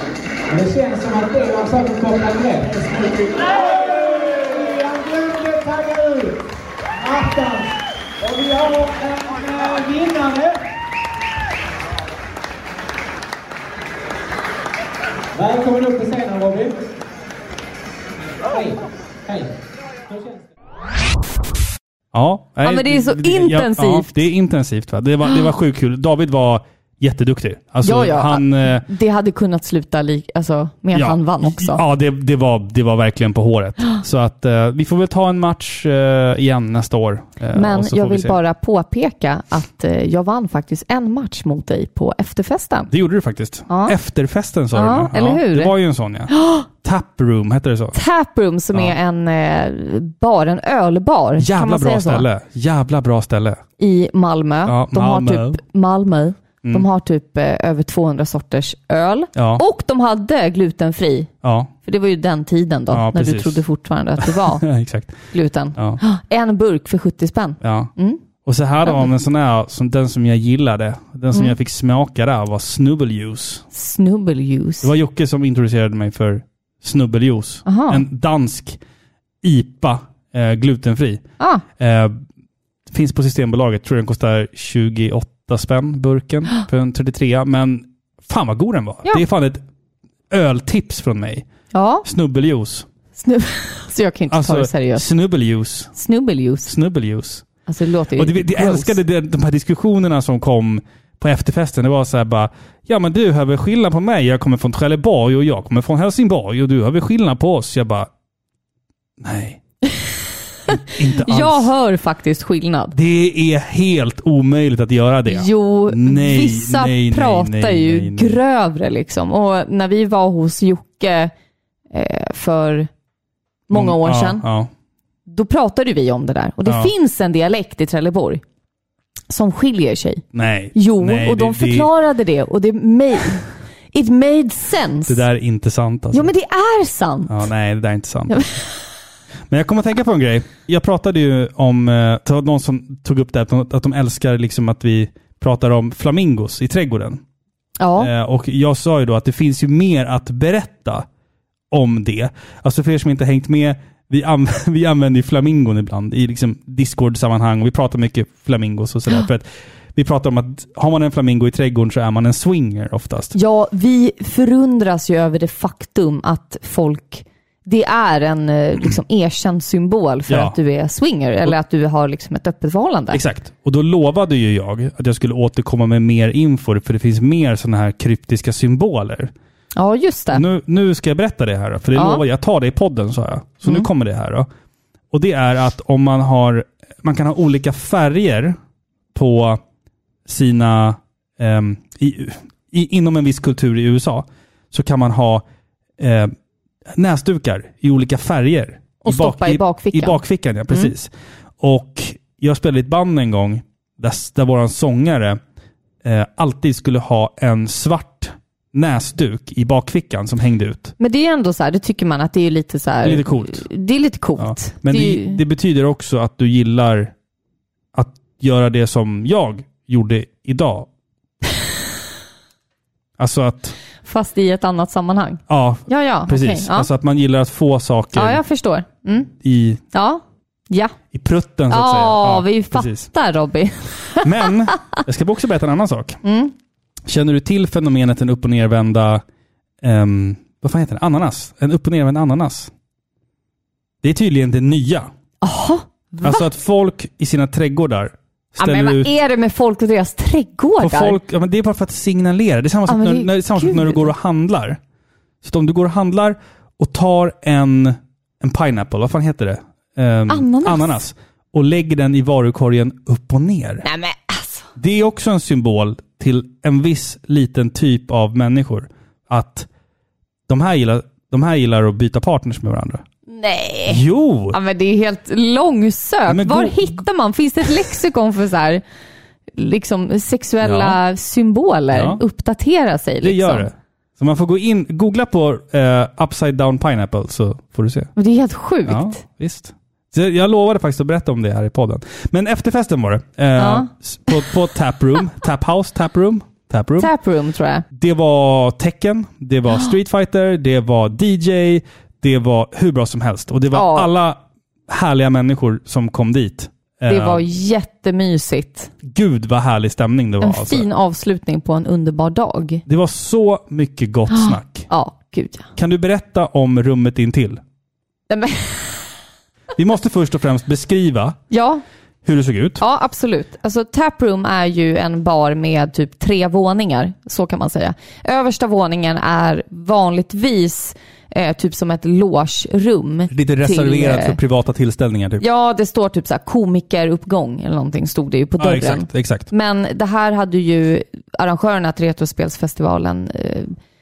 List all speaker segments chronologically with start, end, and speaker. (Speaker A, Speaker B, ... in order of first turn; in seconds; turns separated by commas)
Speaker A: 0.5-6.4, Speaker A: 7.0-10.6, Speaker A: 15.3-16.9, Speaker A: 18.5-19.5, Speaker A: 20.1-20.4, Speaker B: 22.1-28.9, Speaker C: 22.6-24.1, Speaker C: 27.8-31.8, Speaker B: 30.9-38.4, Speaker C: 37.5-42.9, Speaker B: 42.9-48.0, Speaker C: 43.7-43.9, Speaker C: 44.7-45.7, Speaker C: 46.3-46.7, Speaker C: 47.9-52.3, Speaker B: 51.4-53.6, Speaker C: 53.8-61.3, Speaker B: 54.7-55.6, Speaker B: 59.4-59.6, Speaker B: 61.4-61.7, Speaker C: 61.8-64.7, Speaker B: 62.9-63.6, Speaker B: 64.2-65.2, Speaker C: 65.3-68.2, Speaker B: 67.6-67.9, Speaker B: 68.4-73.7, Speaker C: 73.7-74.9, Speaker B: 74.8-78.8, Speaker C: 77.7-78.0, Speaker B: 79.4-81.2, Speaker B: 81.8-82.2, Speaker B: 82.9-89.6, Speaker B: 90.3-91.5, Speaker C: 91.7-92.1, Speaker B: 92.0-92.9, Speaker C: 93.2-95.1, Speaker B: 94.3-95.9, Speaker C: 96.0-96.7, Speaker B: 96.7-97.5, Speaker C: 97.7-99.0, Speaker B: 98.2-108.1, Speaker B: 109.2-109.6, Speaker C: 110.7-113.0, Speaker B: 110.7-111.7, Speaker B: 112.9-118.4, Speaker C: 115.3-121.3, Speaker C: 121.9-122.9, Speaker C: 123.7-124.4, Speaker B: 123.7-124.7, Speaker C: 125.3-128.4, Speaker C: 129.3-130.2, Speaker B: 130.3-131.9, Speaker C: 130.8-135.2, Speaker B: 135.1-136.3, Speaker C: 136.1-137.4, Speaker B: 137.3-138.5, Speaker C: 138.3-138.6, Speaker B: 139.5-147.2, Speaker C: 147.8-148.1, Speaker B: 148.0-151.1, Speaker B: 151.7-163.3, Speaker C: 163.3-173.2, Speaker B: 170.3-170.6, Speaker B: 173.1-179.3, Speaker C: 179.8-180.4, Speaker B: 180.3-184.5, Speaker C: 181.9-182.2, Speaker B: 185.1-188.6, Speaker B: 189.1-189.6, Speaker B: 190.3-195.4, Speaker B: 196.0-196.3, Speaker B: 197.0-205.4, Speaker C: 199.1-200.9, Speaker B: 206.0-210.9, Speaker C: 211.0-215.4, Speaker B: 213.0-213.7, Speaker B: 214.4-217.1, Speaker B: 217.9-220.9, Speaker B: 223.2-223.8, Speaker C: 224.0-226.9, Speaker B: 225.5-228.4, Speaker C: 228.1-229.3, Speaker B: 229.4-229.8, Speaker C: 229.9-231.0, Speaker B: 231.1-233.1, Speaker C: 231.7-234.5, Speaker B: 234.2-236.2, Speaker C: 236.2-236.5, Speaker B: 237.1-239.2, Speaker B: 239.8-242.7, Speaker B: 244.0-245.1, Speaker C: 245.4-246.5, Speaker B: 246.2-249.1, Speaker C: 248.6-251.2, Speaker B: 250.8-254.8, Speaker C: 252.9-254.1, Speaker B: 255.4-263.9, Speaker C: 260.3-261.0, Speaker C: 263.8-264.7, Speaker B: 264.8-269.7, Speaker B: 270.5-273.0, Speaker C: 273.3-278.8, Speaker B: 273.9-274.6, Speaker B: 276.3-276.8, Speaker C: 279.6-283.7, Speaker B: 280.6-281.0, Speaker B: 281.9-282.2, Speaker B: 283.2-288.1, Speaker C: 288.2-289.2, Speaker B: 288.9-297.1, Speaker C: 293.6-294.4, Speaker C: 297.0-297.8, Speaker B: 297.9-307.4, Speaker C: 303.7-304.1, Speaker C: 307.1-308.9, Speaker B: 309.0-310.9, Speaker C: 310.4-312.8, Speaker B: 312.9-314.9, Speaker C: 314.3-315.7, Speaker B: 315.8-317.6, Speaker C: 318.3-319.1, Speaker B: 319.8-321.4, Speaker C: 321.5-321.8, Speaker B: 322.2-322.8, Speaker C: 322.8-334.4, Speaker B: 333.3-335.4, Speaker C: 335.4-343.8, Speaker B: 338.6-339.5